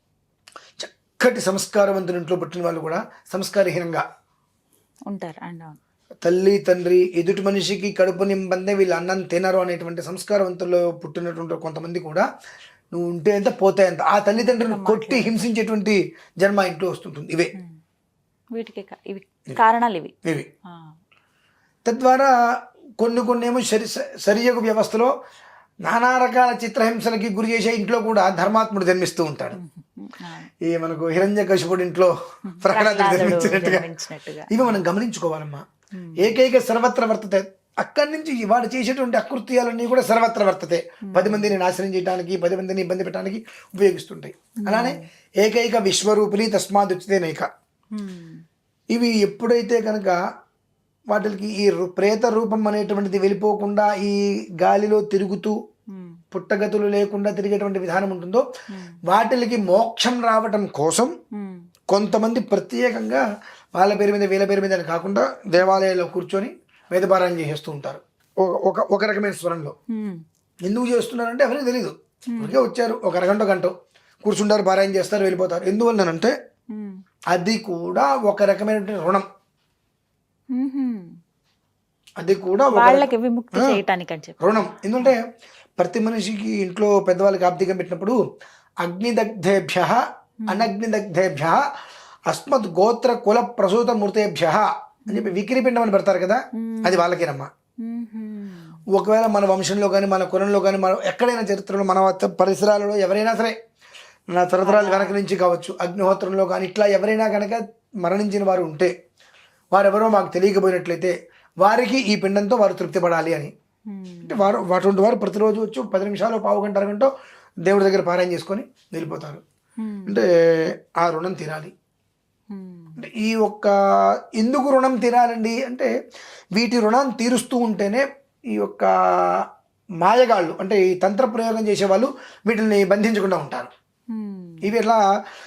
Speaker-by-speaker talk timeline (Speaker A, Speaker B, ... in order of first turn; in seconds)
Speaker A: 0.8-4.0, 6.2-12.2, 12.9-17.5, 21.8-22.3, 23.0-25.1, 25.8-29.6, 30.6-33.9, 34.5-35.6, 36.2-47.5, 48.9-50.2, 51.1-55.5, 56.3-58.4, 59.1-61.1, 61.9-63.2, 63.7-69.7, 70.7-73.7, 74.2-76.3, 77.3-79.2, 82.2-83.7, 84.4-85.2, 85.8-88.2, 88.8-91.6, 92.3-97.5, 98.9-103.5, 104.3-108.9, 109.7-113.5, 114.2-117.1, 117.6-119.4, 120.0-121.7, 123.0-123.7, 124.4-125.9, 126.5-129.5, 130.0-133.7, 134.6-135.0
Speaker B: 5.1-5.8, 14.4-15.3, 18.5-20.1, 20.7-20.9, 29.5-30.5, 32.5-34.8, 35.9-36.3, 41.0-41.5, 44.6-45.0, 47.9-48.4, 55.9-56.2, 58.7-59.0, 61.3-61.6, 65.6-65.8, 69.9-70.2, 76.7-77.0, 80.5-81.2, 82.7-85.1, 90.4-90.7, 95.1-95.4, 96.6-97.0, 97.8-98.8, 104.6-105.1, 113.9-114.5, 119.8-120.2, 122.5-123.0, 134.1-134.7